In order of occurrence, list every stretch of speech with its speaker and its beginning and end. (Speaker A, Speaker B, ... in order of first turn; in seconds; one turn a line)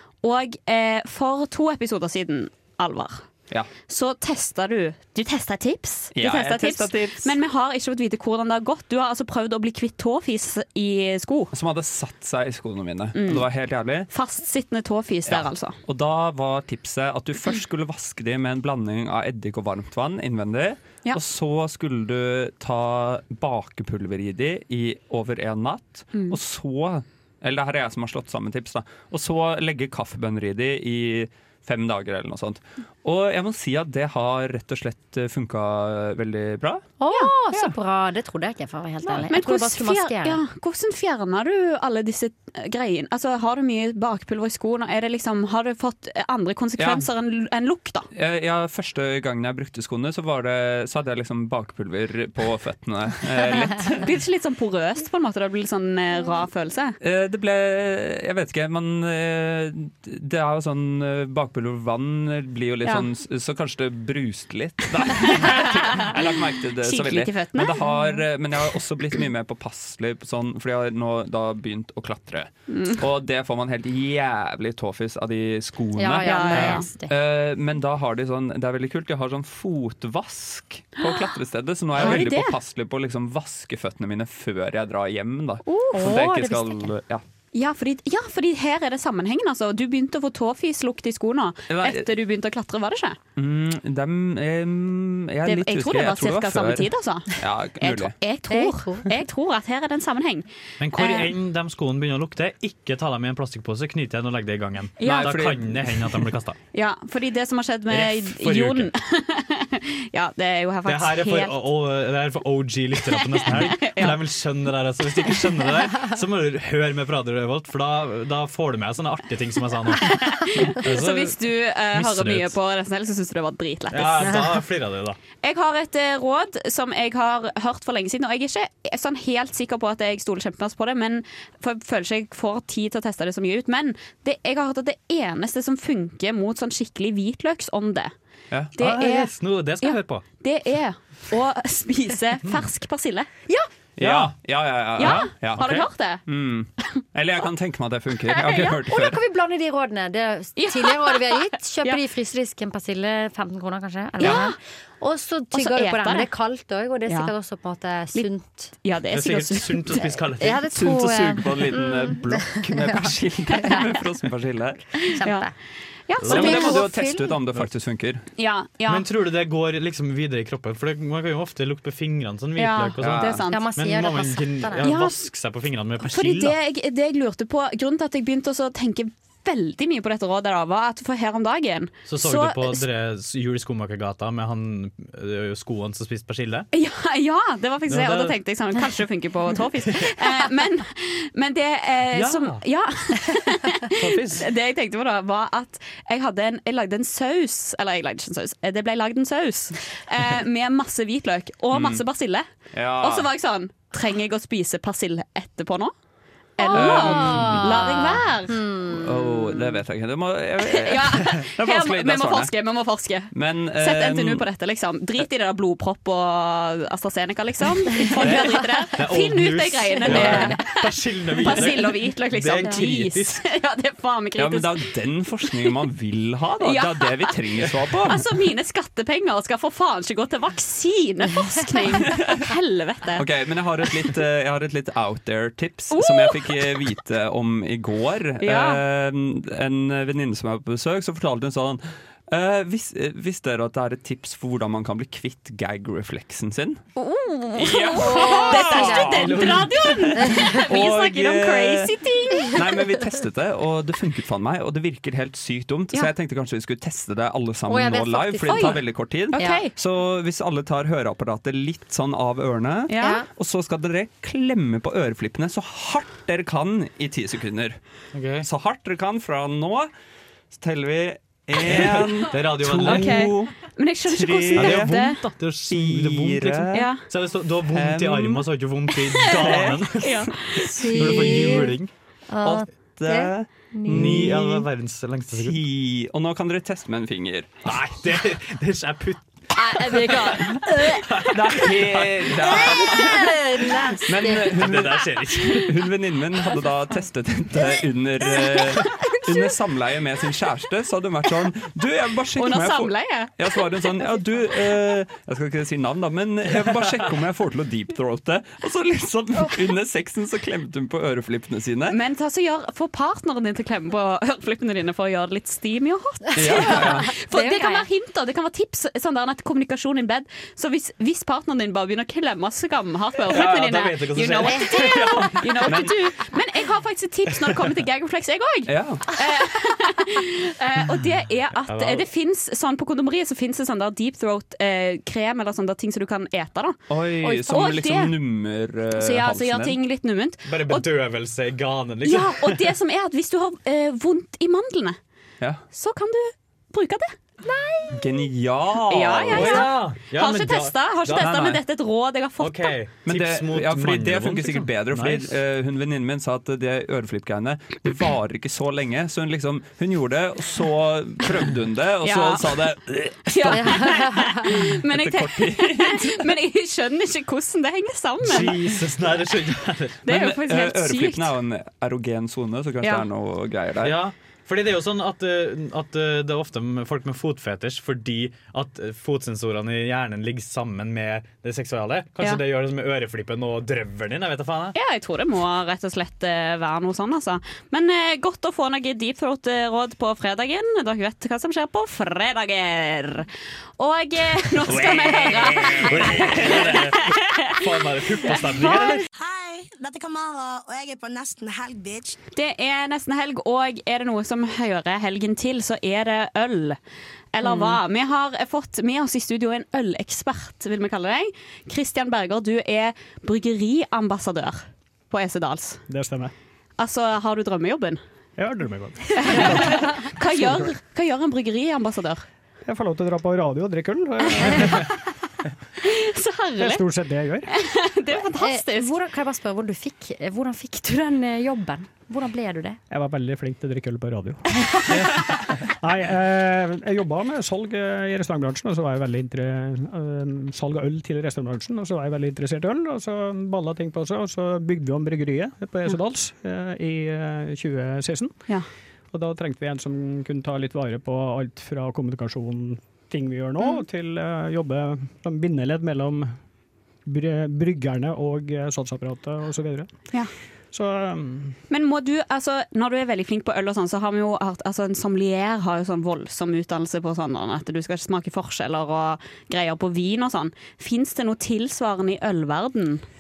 Speaker A: 0.2-3.3
Speaker A: 3.9-11.5
Speaker B: 6.2-7.3
Speaker B: 11.5-14.1
Speaker A: 13.2-13.4
Speaker A: 14.1-15.8
Speaker B: 15.3-36.8
Speaker C: 37.0-40.4
Speaker A: 37.1-37.7
Speaker A: 39.3-48.1
Speaker B: 46.8-47.0
Speaker B: 48.1-54.0
Speaker A: 54.0-57.0
Speaker B: 57.0-87.2
Speaker A: 65.2-66.2
Speaker A: 66.8-67.9
Speaker A: 72.7-73.0
Speaker C: 76.0-77.1
Speaker A: 76.2-76.9
Speaker A: 82.0-82.5
Speaker A: 85.7-86.1
Speaker C: 85.9-86.9
Speaker A: 87.5-93.2
Speaker B: 91.7-92.1
Speaker B: 93.4-98.1
Speaker A: 95.5-101.3
Speaker C: 98.5-99.1
Speaker D: 100.8-106.6
Speaker A: 105.0-105.3
Speaker B: 105.0-106.3
Speaker A: 106.7-111.6
Speaker D: 107.9-108.9
Speaker D: 110.9-122.6
Speaker A: 113.3-114.2
Speaker A: 120.0-124.4
Speaker D: 123.9-125.2
Speaker A: 125.4-138.1
Speaker A: 138.8-143.3
Speaker D: 138.8-140.2
Speaker B: 144.0-149.2
Speaker D: 144.0-144.4
Speaker D: 145.0-145.9
Speaker A: 145.0-146.3
Speaker A: 148.3-148.7
Speaker C: 148.9-158.7
Speaker A: 150.6-152.0
Speaker A: 154.2-154.6
Speaker A: 155.5-156.3
Speaker A: 157.1-157.3
Speaker A: 158.8-160.1
Speaker D: 159.1-160.7
Speaker C: 160.2-163.9
Speaker B: 160.6-165.0
Speaker C: 165.1-165.6
Speaker A: 165.2-165.5
Speaker A: 166.1-166.9
Speaker B: 166.2-168.2
Speaker C: 166.3-167.3
Speaker D: 166.3-166.8
Speaker A: 168.4-169.1
Speaker D: 168.9-176.6
Speaker A: 172.6-173.7
Speaker C: 173.5-174.9
Speaker A: 174.8-175.2
Speaker A: 176.0-182.8
Speaker D: 182.1-186.7
Speaker A: 186.7-202.5
Speaker D: 187.9-188.4
Speaker D: 192.1-192.6
Speaker D: 193.9-194.4
Speaker B: 201.7-202.0
Speaker B: 202.7-203.3
Speaker A: 203.0-205.9
Speaker A: 206.6-208.6
Speaker C: 206.6-209.4
Speaker B: 206.7-207.6
Speaker B: 208.9-212.6
Speaker A: 210.7-220.8
Speaker B: 213.3-214.4
Speaker D: 218.9-223.4
Speaker B: 220.2-220.4
Speaker A: 221.4-224.8
Speaker B: 224.4-228.2
Speaker A: 226.6-227.4
Speaker A: 228.1-233.2
Speaker B: 233.2-246.8
Speaker A: 235.9-236.5
Speaker A: 238.4-238.8
Speaker A: 247.0-252.6
Speaker B: 247.6-249.5
Speaker C: 248.0-249.5
Speaker D: 249.1-250.2
Speaker C: 250.2-250.5
Speaker B: 250.5-251.9
Speaker B: 252.4-267.8
Speaker C: 257.7-259.7
Speaker A: 258.5-258.8
Speaker A: 259.3-259.7
Speaker A: 262.9-263.2
Speaker C: 263.0-263.3
Speaker D: 268.1-268.5
Speaker B: 268.4-269.9
Speaker B: 270.5-276.9
Speaker D: 271.6-273.3
Speaker A: 272.8-275.2
Speaker D: 274.6-281.9
Speaker A: 276.7-277.0
Speaker B: 277.7-278.5
Speaker B: 279.2-279.8
Speaker A: 280.0-280.9
Speaker C: 280.7-281.7
Speaker B: 281.1-281.4
Speaker C: 282.3-284.5
Speaker B: 283.0-284.7
Speaker D: 283.9-285.6
Speaker B: 285.4-287.7
Speaker D: 287.6-293.0
Speaker A: 289.6-290.7
Speaker B: 291.3-293.2
Speaker C: 292.5-294.6
Speaker B: 294.1-312.0
Speaker D: 294.5-295.7
Speaker C: 298.4-299.0
Speaker A: 302.4-303.6
Speaker A: 311.9-338.1
Speaker B: 316.4-317.1
Speaker C: 316.5-317.9
Speaker D: 323.3-325.7
Speaker B: 323.3-323.9
Speaker B: 325.7-325.9
Speaker B: 328.7-329.1
Speaker D: 331.7-332.1
Speaker B: 336.9-339.8
Speaker A: 338.9-340.9
Speaker D: 340.5-342.5
Speaker A: 342.1-345.0
Speaker A: 345.7-347.2
Speaker B: 347.9-349.7
Speaker A: 348.9-352.8
Speaker D: 349.0-351.6
Speaker B: 351.1-351.6
Speaker D: 352.4-355.3
Speaker B: 353.1-363.8
Speaker A: 362.0-362.7
Speaker A: 363.3-368.6
Speaker C: 363.5-364.5
Speaker B: 364.9-366.2
Speaker D: 368.2-370.0
Speaker A: 370.1-371.3
Speaker B: 370.1-374.0
Speaker D: 373.8-384.8
Speaker A: 384.8-393.3
Speaker A: 393.8-397.2
Speaker B: 394.7-396.3
Speaker D: 395.9-399.1
Speaker E: 399.2-402.2
Speaker A: 402.4-406.8
Speaker A: 407.4-415.9
Speaker F: 415.9-416.3
Speaker A: 416.8-418.0
Speaker F: 418.4-420.7
Speaker A: 419.2-422.2
Speaker F: 422.7-424.9
Speaker A: 425.8-428.9
Speaker F: 426.6-427.5
Speaker C: 428.3-432.8
Speaker F: 432.9-456.4
Speaker D: 434.9-435.2
Speaker A: 453.6-453.8
Speaker F: 457.1-461.6
Speaker A: 461.7-473.0